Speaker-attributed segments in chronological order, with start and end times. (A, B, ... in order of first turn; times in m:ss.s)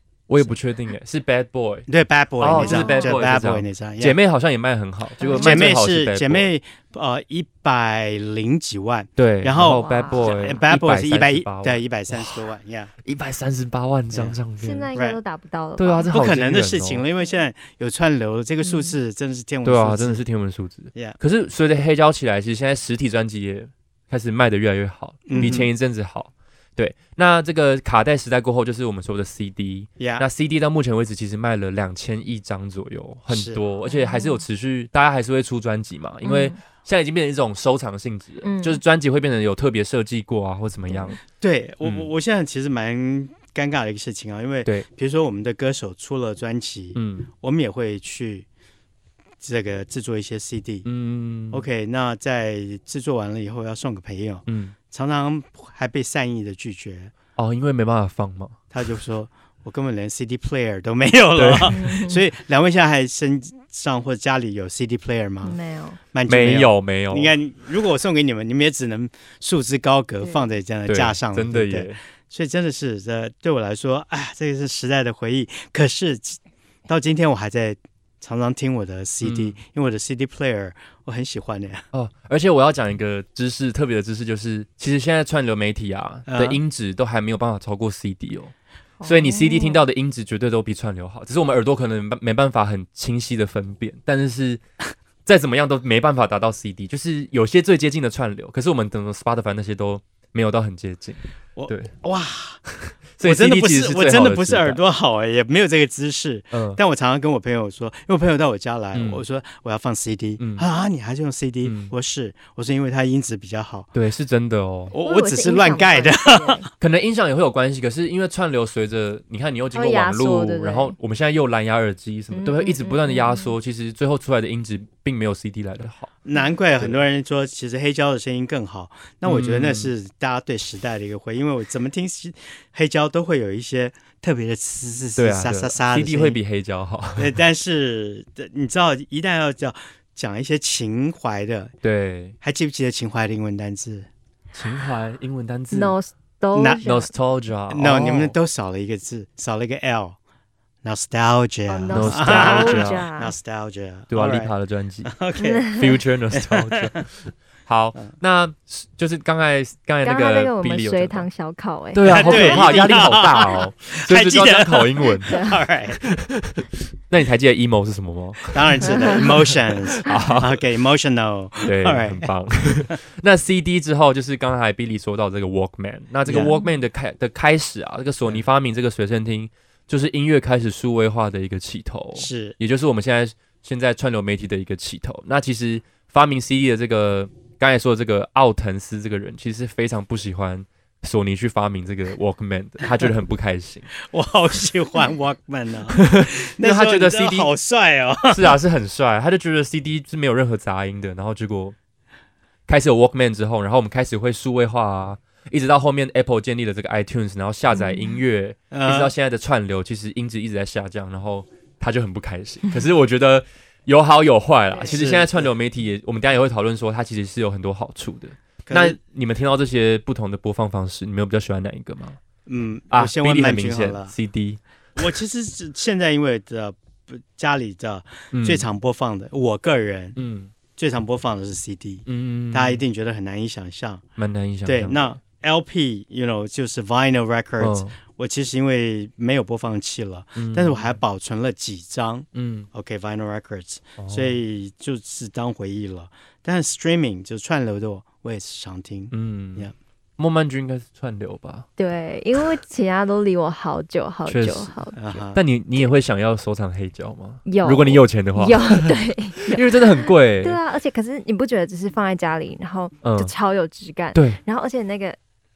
0:00.3-0:01.9 A
0:01.9-0:04.2 B
0:02.4-0:06.5 A
0:02.6-0:03.1 C
0:05.2-0:05.6 C
0:05.2-0:12.9 B
0:09.2-0:12.4 A
0:09.7-0:10.4 C
0:13.0-0:14.9 A
0:14.1-0:14.4 B
0:14.6-0:16.1 C
0:15.8-0:17.0 A
0:16.1-0:20.2 B
0:18.6-0:18.9 C
0:19.6-0:41.2 A
0:25.3-0:25.7 B
0:25.3-0:25.6 C
0:30.0-0:30.2 B
0:33.3-0:33.6 B
0:33.9-0:34.4 C
0:36.2-0:36.6 C
0:38.4-0:38.8 C
0:40.9-0:41.2 C
0:41.4-0:48.4 B
0:41.8-0:42.1 A
0:46.9-0:47.3 A
0:49.4-0:50.8 B
0:50.8-0:51.6 A
0:51.5-0:57.1 B
0:54.5-0:54.7 A
0:57.4-0:58.6 A
0:58.7-1:05.6 B
1:01.3-1:01.8 A
1:01.7-1:02.2 C
1:05.4-1:06.0 C
1:06.1-1:21.8 B
1:06.3-1:07.3 A
1:10.9-1:12.0 A
1:19.2-1:19.6 A
1:21.9-1:28.5 A
1:26.3-1:26.6 B
1:29.0-1:29.8 C
1:29.0-1:34.6 A
1:35.2-1:41.9 A
1:41.6-1:42.6 B
1:42.8-1:44.8 A
1:43.2-1:53.9 B
1:46.5-1:46.8 A
1:48.9-1:49.2 A
1:50.4-1:50.6 A
1:51.6-1:51.9 A
1:53.9-1:54.9 A
1:54.9-1:56.6 B
1:55.0-1:56.6 C
1:56.8-2:06.1 A
1:59.7-2:01.0 C
2:02.3-2:03.5 C
2:06.2-2:16.4 B
2:09.2-2:09.9 A
2:15.2-2:17.4 A
2:17.2-2:21.7 B
2:21.8-2:22.3 A
2:22.4-2:24.1 B
2:24.5-2:26.0 A
2:25.7-2:27.1 C
2:26.5-2:26.8 B
2:26.8-2:28.4 A
2:27.7-2:30.2 B
2:30.8-2:34.5 B
2:31.7-2:33.3 C
2:31.9-2:33.0 A
2:34.1-2:35.1 A
2:35.0-2:37.0 B
2:35.4-2:35.9 C
2:35.8-2:37.1 A
2:37.6-2:41.3 A
2:40.0-2:42.9 C
2:41.9-2:45.4 A
2:42.0-2:46.0 B
2:45.3-2:45.6 C
2:46.0-2:50.6 A
2:48.5-2:52.3 B
2:48.8-2:49.2 C
2:51.6-3:13.9 A
2:56.2-2:56.5 B
3:02.2-3:02.6 B
3:14.0-3:18.6 B
3:15.9-3:17.5 A
3:18.3-3:21.8 A
3:22.7-3:42.2 A
3:27.7-3:28.2 C
3:28.7-3:29.1 B
3:34.8-3:35.5 B
3:38.7-3:39.0 B
3:42.5-3:44.1 B
3:42.9-3:44.6 A
3:45.0-3:50.2 B
3:48.3-3:48.6 A
3:50.2-3:50.5 A
3:50.8-3:54.0 B
3:52.0-3:52.8 A
3:54.2-3:55.1 A
3:54.6-4:09.7 B
3:57.6-3:58.0 A
4:00.4-4:01.0 A
4:02.3-4:02.7 A
4:04.0-4:04.4 A
4:09.1-4:11.7 A
4:11.8-4:15.2 C
4:14.2-4:14.7 A
4:15.0-4:15.4 B
4:15.3-4:20.6 A
4:17.4-4:25.2 C
4:23.0-4:23.3 A
4:24.1-4:24.4 A